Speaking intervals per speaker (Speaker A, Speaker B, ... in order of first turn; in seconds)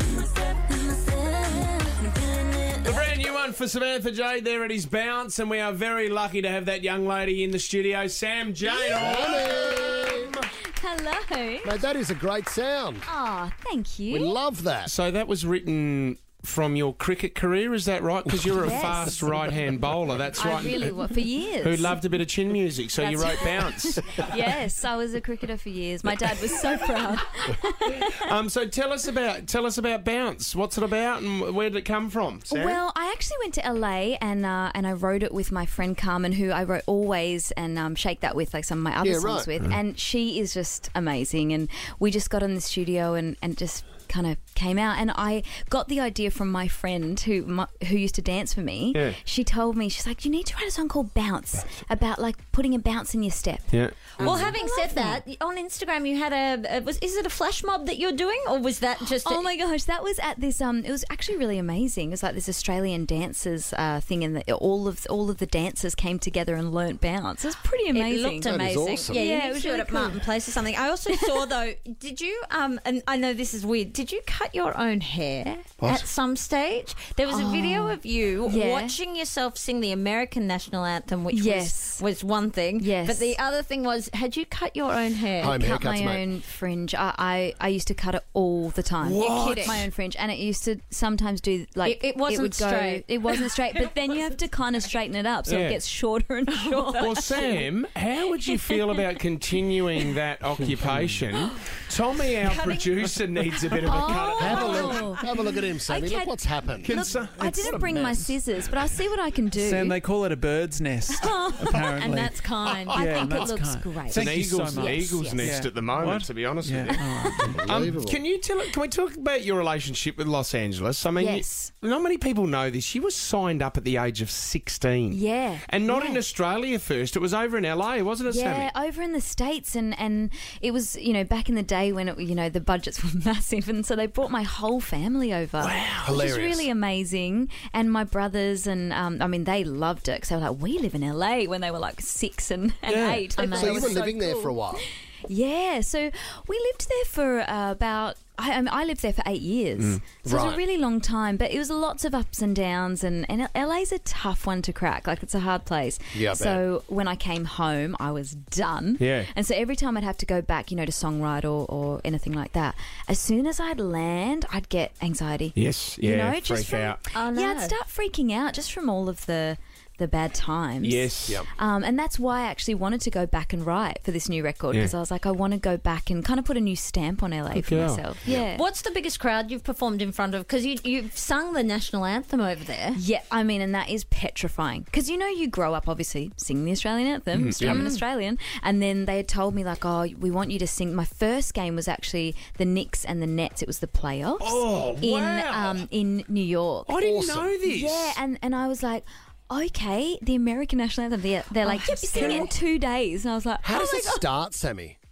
Speaker A: 0.7-2.8, 54.2-59.5, 67.9-85.6, 89.2-89.9, 91.8-94.2, 96.5-97.5, 102.5-102.9, 103.9-104.2, 112.0-113.4, 143.3-144.1, 167.1-167.8, 178.3-183.0, 187.6-188.0, 201.7-202.5
Speaker B: 2.8-10.3, 14.9-21.0, 21.6-24.5, 28.0-32.5, 53.7-54.6, 89.0-89.8, 95.5-95.8, 97.0-105.1, 106.8-107.5, 114.0-128.7, 135.6-136.2, 142.9-143.4, 159.0-159.3, 165.6-167.0, 170.8-171.4, 177.5-178.0, 187.3-187.8, 194.4-195.9, 196.9-198.2
Speaker C: 8.6-11.8, 13.1-14.4, 18.6-19.6, 20.3-22.1, 23.0-28.1, 32.5-55.2, 59.1-70.3, 71.1-71.4, 77.3-79.0, 81.3-82.0, 82.8-83.4, 85.4-97.6, 98.4-99.0, 101.3-101.6, 103.8-110.0, 111.1-112.2, 112.7-115.7, 117.0-117.5, 121.2-121.7, 125.1-126.2, 128.3-178.6, 182.9-196.9, 197.6-204.3
Speaker D: 8.9-10.3, 11.6-13.1, 14.1-14.9, 32.5-32.8, 39.0-39.5, 68.5-69.2, 75.8-76.1, 85.4-86.2, 104.4-106.9, 117.5-118.2, 136.0-136.7, 143.4-144.8, 150.2-150.6, 156.1-156.6, 197.0-197.5, 202.2-202.4, 203.6-205.0
Speaker E: 100.6-101.2, 107.4-108.2, 109.5-117.9